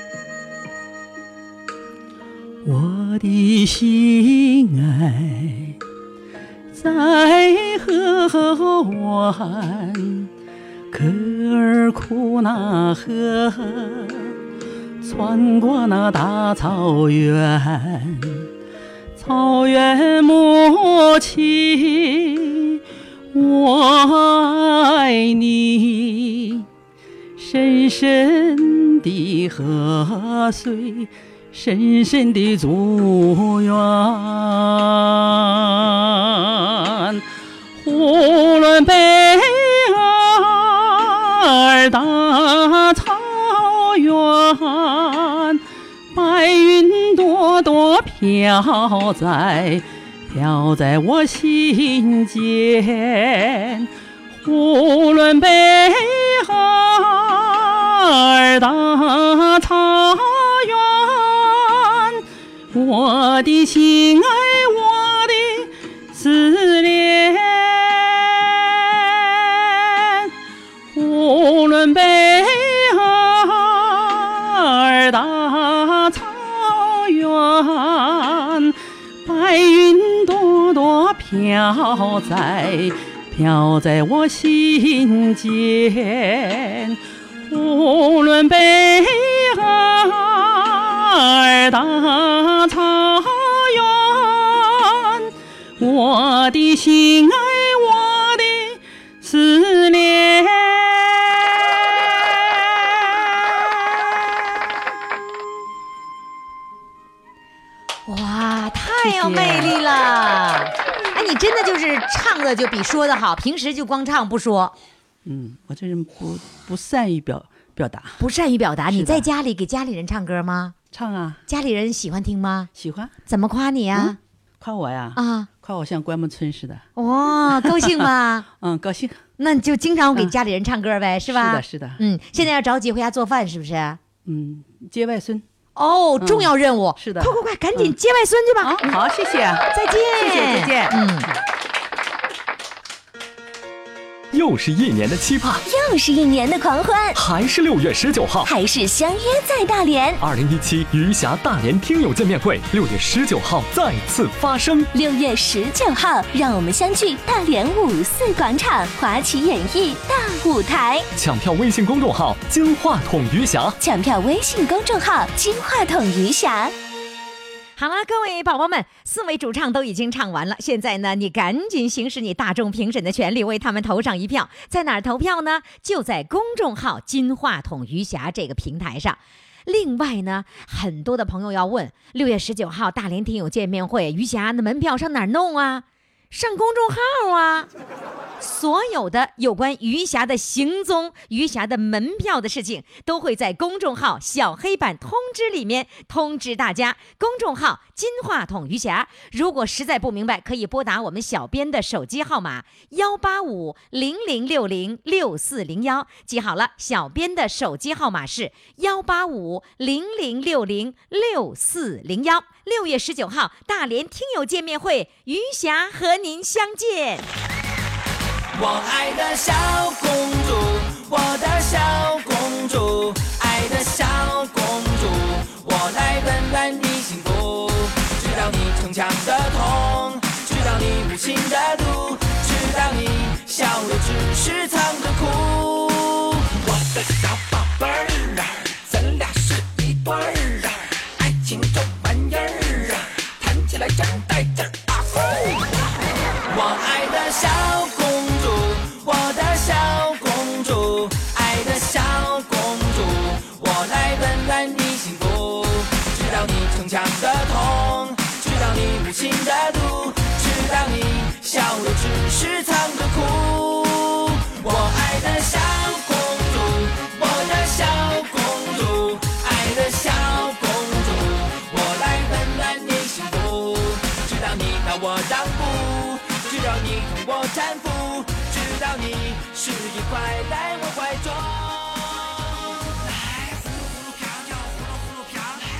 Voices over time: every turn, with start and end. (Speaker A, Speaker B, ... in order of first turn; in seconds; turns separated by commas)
Speaker A: 2.6-5.8, Speaker A: 6.7-10.3, Speaker A: 10.9-14.3, Speaker A: 15.0-18.5, Speaker A: 19.2-22.8, Speaker A: 23.3-26.6, Speaker A: 27.4-37.2, Speaker A: 37.8-45.6, Speaker A: 46.1-53.9, Speaker A: 54.4-62.2, Speaker A: 62.7-68.1, Speaker A: 70.9-78.7, Speaker A: 79.2-87.0, Speaker A: 87.5-95.2, Speaker A: 95.8-101.0, Speaker B: 108.1-114.7, Speaker A: 109.0-109.7, Speaker A: 115.2-118.2, Speaker B: 118.2-120.7, Speaker A: 118.9-119.3, Speaker A: 120.9-121.4, Speaker B: 121.5-122.7, Speaker A: 122.7-123.1, Speaker B: 123.3-124.2, Speaker A: 123.9-126.9, Speaker B: 125.2-125.5, Speaker B: 127.0-128.5, Speaker A: 127.6-129.2, Speaker B: 129.4-134.0, Speaker A: 131.3-132.0, Speaker A: 134.2-135.4, Speaker B: 135.8-138.9, Speaker A: 136.2-137.9, Speaker A: 138.6-139.7, Speaker B: 139.7-141.3, Speaker A: 140.2-140.9, Speaker C: 144.3-145.6, Speaker D: 145.7-147.2, Speaker C: 147.1-148.5, Speaker D: 148.4-150.2, Speaker C: 150.2-154.9, Speaker D: 154.9-161.1, Speaker C: 161.1-163.8, Speaker D: 163.8-166.7, Speaker B: 167.8-187.7, Speaker B: 188.4-217.2, Speaker E: 218.5-245.7, Speaker E: 246.4-282.5